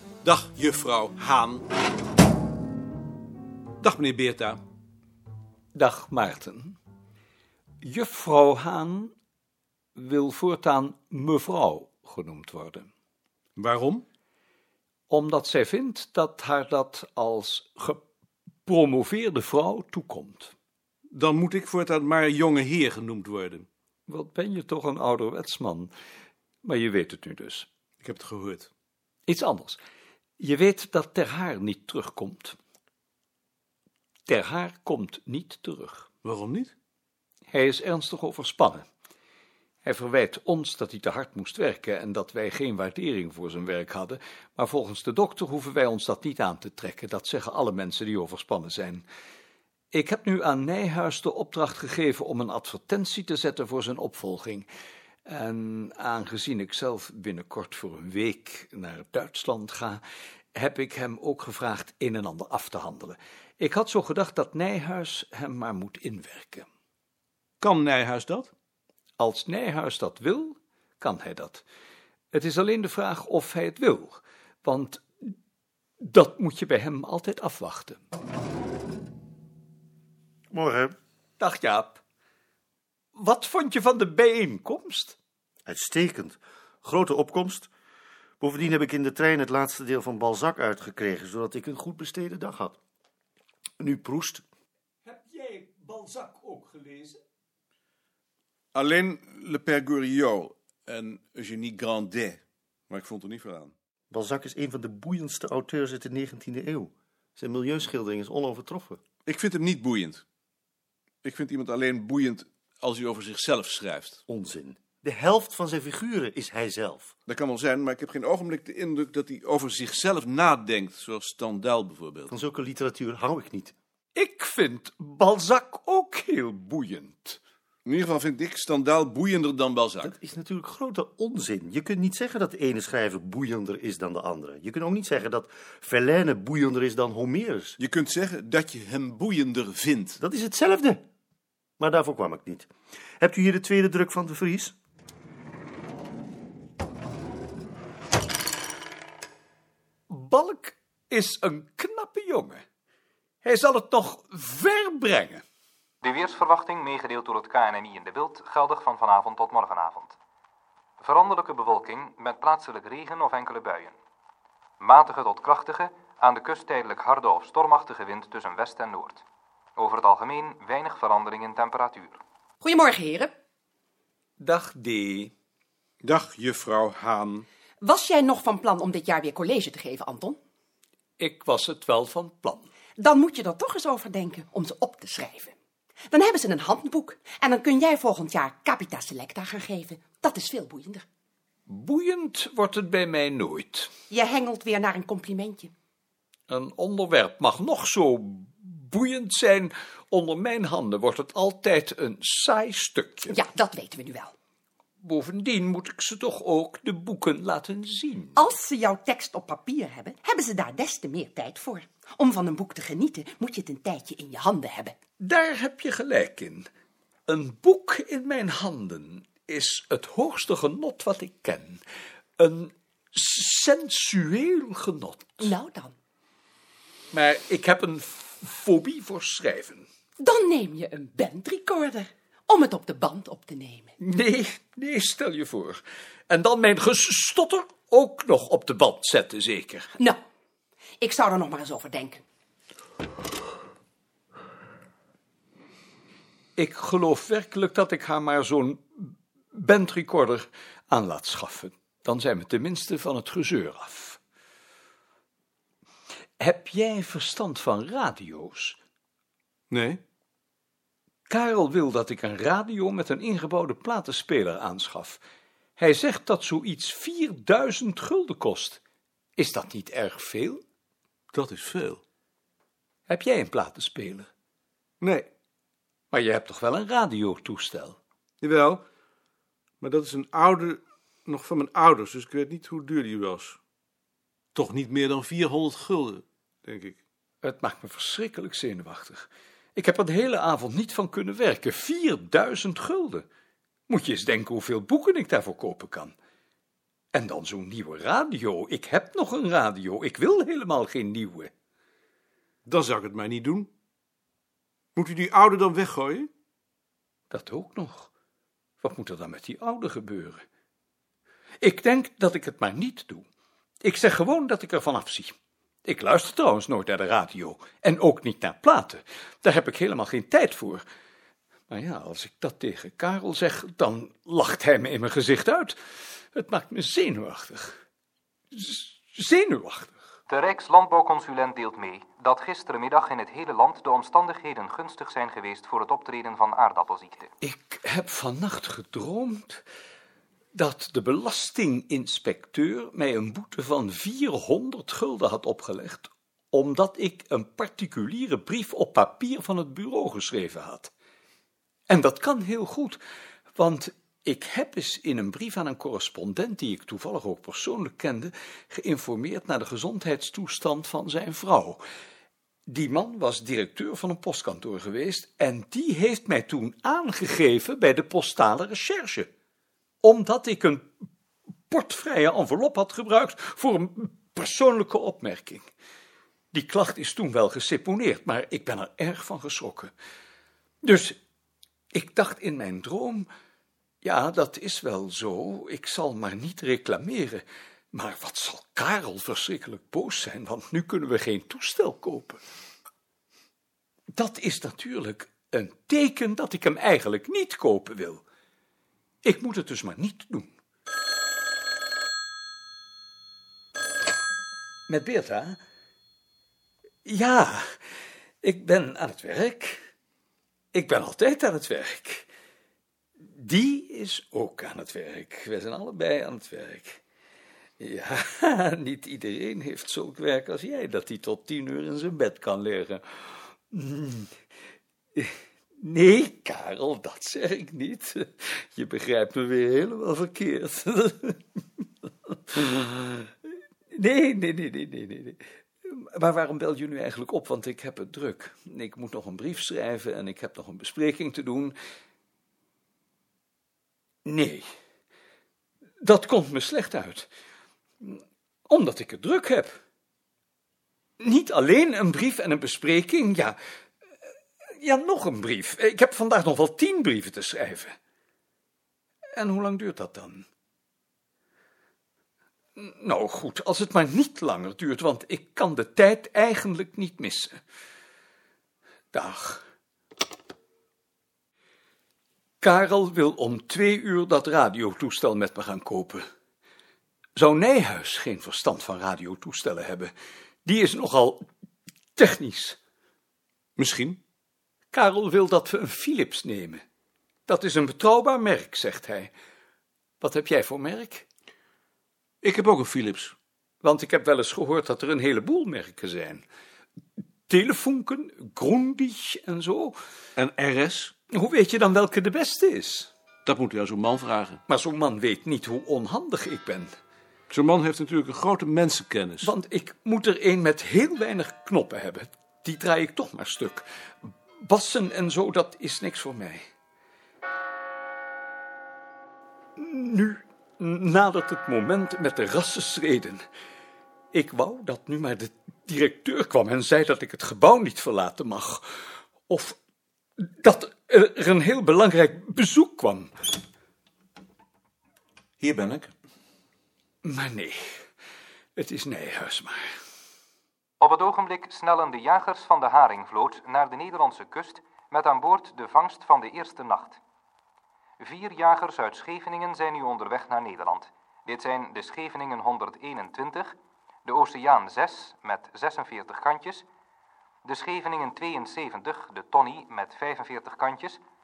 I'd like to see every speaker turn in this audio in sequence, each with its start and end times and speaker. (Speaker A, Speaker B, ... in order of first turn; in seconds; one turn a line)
Speaker A: 0.2-1.6
Speaker A: 3.8-4.6
Speaker B: 5.7-6.8
Speaker B: 7.8-9.1
Speaker B: 9.9-12.9
Speaker A: 13.6-14.0
Speaker B: 15.1-18.0
Speaker B: 18.7-20.5
Speaker A: 21.1-23.7
Speaker B: 24.1-25.9
Speaker B: 26.6-27.7
Speaker A: 28.0-28.7
Speaker B: 29.3-29.8
Speaker B: 30.4-32.5
Speaker B: 34.3-36.1
Speaker A: 36.2-36.7
Speaker B: 37.5-38.9
Speaker B: 39.8-49.0
Speaker B: 49.9-54.7
Speaker B: 55.2-60.0
Speaker B: 60.5-66.7
Speaker A: 67.6-68.5
Speaker B: 69.2-71.6
Speaker B: 72.3-75.3
Speaker B: 76.0-78.0
Speaker C: 80.5-80.9
Speaker B: 81.4-82.0
Speaker B: 83.2-85.2
Speaker C: 85.7-87.7
Speaker C: 88.4-92.8
Speaker C: 93.8-94.4
Speaker B: 95.0-97.2
Speaker A: 98.7-103.7
Speaker C: 104.1-109.0
Speaker A: 109.2-110.2
Speaker A: 111.2-114.2
Speaker C: 114.3-117.1
Speaker A: 117.3-122.3
Speaker C: 122.3-123.7
Speaker B: 124.2-127.4
Speaker A: 127.8-130.1
Speaker C: 130.0-137.8
Speaker A: 137.8-140.2
Speaker C: 140.2-141.0
Speaker C: 141.8-144.7
Speaker B: 150.1-152.6
Speaker B: 153.4-155.4
Speaker D: 156.0-160.2
Speaker D: 161.0-163.9
Speaker D: 164.8-169.2
Speaker D: 169.8-172.2
Speaker E: 172.6-173.3
Speaker B: 174.4-175.3
Speaker A: 176.0-177.5
Speaker E: 177.8-180.4
Speaker B: 181.2-182.7
Speaker E: 183.0-185.6
Speaker E: 186.1-191.0
Speaker B: 191.7-193.9
Speaker E: 194.1-195.7
Speaker B: 196.5-203.4
Speaker E: 203.3-204.3
Speaker B: 205.0-208.4
Speaker E: 208.3-214.9
Speaker B: 215.2-216.7
Speaker B: 217.3-221.8
Speaker B: 222.4-225.5
Speaker E: 225.4-225.9
Speaker B: 227.1-229.9
Speaker E: 230.2-234.0
Speaker B: 234.0-239.9
Speaker E: 239.9-240.2
Speaker E: 241.0-242.2
Speaker B: 246.6-254.2
Speaker B: 256.4-258.8
Speaker A: 259.7-260.0
Speaker B: 261.3-265.2
Speaker B: 265.8-268.8
Speaker B: 269.4-270.6
Speaker A: 271.3-272.0
Speaker B: 273.1-274.3
Speaker A: 275.0-275.3
Speaker B: 276.1-278.0
Speaker A: 278.4-278.8
Speaker A: 279.8-283.6
Speaker A: 284.5-287.0
Speaker B: 287.4-293.2
Speaker B: 293.9-296.1
Speaker B: 297.1-301.5
Speaker A: 302.6-303.7
Speaker A: 305.0-306.3
Speaker B: 307.3-308.1
Speaker B: 308.8-310.4
Speaker B: 311.6-313.2
Speaker B: 313.8-320.9
Speaker B: 321.7-325.8
Speaker B: 326.3-327.8
Speaker B: 328.5-330.0
Speaker D: 330.3-337.3
Speaker B: 337.4-339.6
Speaker B: 340.5-350.9
Speaker B: 351.9-353.0
Speaker B: 353.5-361.8
Speaker B: 362.7-369.3
Speaker B: 370.0-370.9
Speaker B: 371.7-375.6
Speaker B: 376.5-379.9
Speaker B: 380.8-381.2
Speaker B: 381.9-383.3
Speaker B: 384.0-392.4
Speaker B: 394.1-398.2
Speaker B: 399.2-400.5
Speaker B: 404.9-405.6
Speaker B: 407.0-409.9
Speaker B: 410.7-412.3
Speaker B: 413.2-417.0
Speaker B: 417.8-424.3
Speaker B: 425.1-431.4
Speaker B: 432.5-433.3
Speaker B: 433.9-441.8
Speaker B: 444.2-444.7
Speaker B: 446.0-447.3
Speaker B: 448.0-449.8
Speaker B: 451.2-453.6
Speaker B: 454.6-458.0
Speaker B: 459.4-460.5
Speaker B: 462.8-467.6
Speaker B: 469.1-469.6
Speaker B: 472.6-476.2
Speaker B: 477.4-480.1
Speaker B: 480.6-481.5
Speaker B: 482.1-482.8
Speaker A: 483.8-484.2
Speaker B: 484.9-486.8
Speaker B: 487.5-489.3
Speaker B: 490.2-491.2
Speaker A: 492.4-493.4
Speaker B: 493.8-496.4
Speaker B: 497.5-500.0
Speaker A: 500.4-501.1
Speaker B: 501.3-503.1
Speaker A: 503.4-504.6
Speaker B: 504.7-506.9
Speaker A: 507.5-509.5
Speaker B: 509.4-516.6
Speaker B: 519.8-523.4
Speaker B: 524.3-529.8
Speaker B: 530.4-533.3
Speaker A: 535.6-536.1
Speaker B: 537.2-538.0
Speaker B: 538.8-539.9
Speaker D: 541.0-547.2
Speaker D: 548.2-556.9
Speaker D: 557.6-561.2